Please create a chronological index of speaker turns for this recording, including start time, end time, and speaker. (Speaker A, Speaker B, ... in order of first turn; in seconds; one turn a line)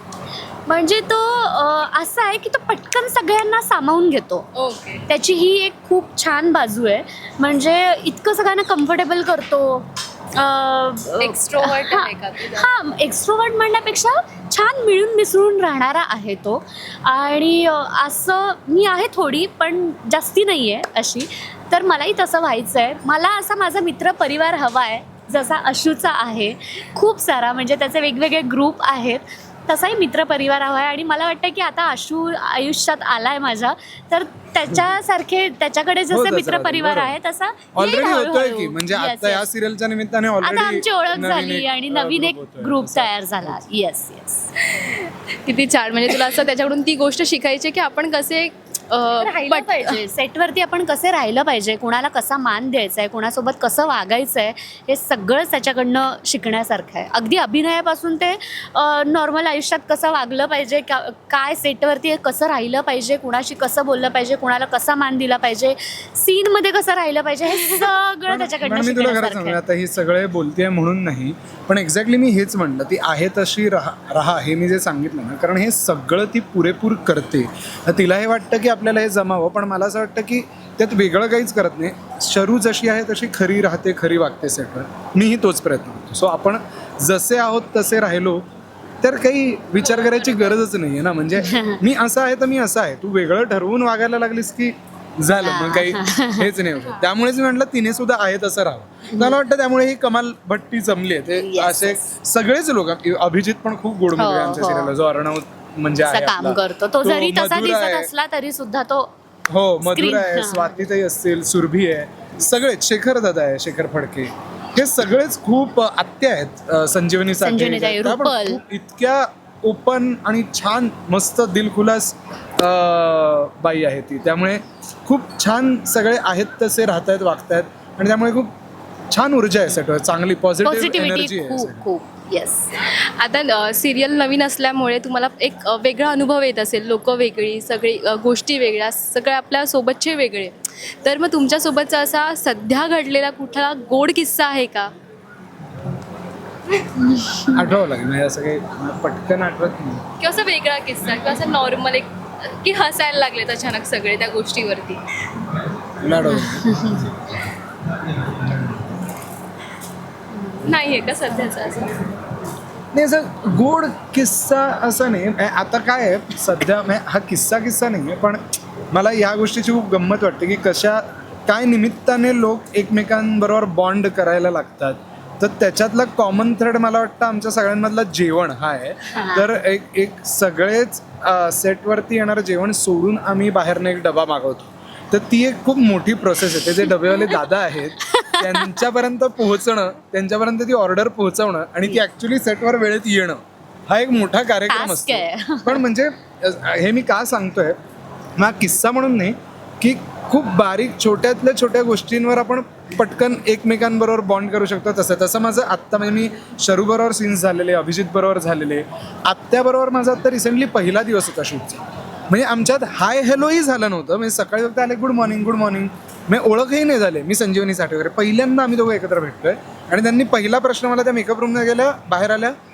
Speaker A: 0.7-4.5
Speaker B: 4.5-5.0
Speaker A: 5.1-39.5
Speaker B: 11.2-12.7
Speaker C: 36.1-37.1
Speaker C: 37.7-43.6
Speaker A: 40.4-44.5
Speaker B: 44.6-50.0
Speaker A: 49.2-69.6
Speaker C: 67.8-88.4
Speaker C: 89.0-108.1
Speaker B: 89.8-90.6
Speaker A: 91.4-91.8
Speaker A: 95.3-96.5
Speaker A: 99.1-99.4
Speaker A: 101.3-102.0
Speaker A: 104.1-104.9
Speaker A: 106.0-109.1
Speaker C: 109.5-128.5
Speaker A: 109.8-110.8
Speaker A: 117.4-118.6
Speaker C: 129.1-131.8
Speaker A: 130.6-132.7
Speaker B: 132.8-144.9
Speaker C: 147.5-150.0
Speaker B: 150.2-155.0
Speaker C: 156.0-157.1
Speaker A: 156.2-157.1
Speaker C: 158.0-158.8
Speaker A: 160.4-160.7
Speaker B: 160.6-162.1
Speaker C: 162.9-168.4
Speaker C: 168.9-197.8
Speaker A: 179.1-179.5
Speaker A: 187.1-187.4
Speaker A: 188.0-188.8
Speaker A: 194.7-195.8
Speaker C: 198.4-222.5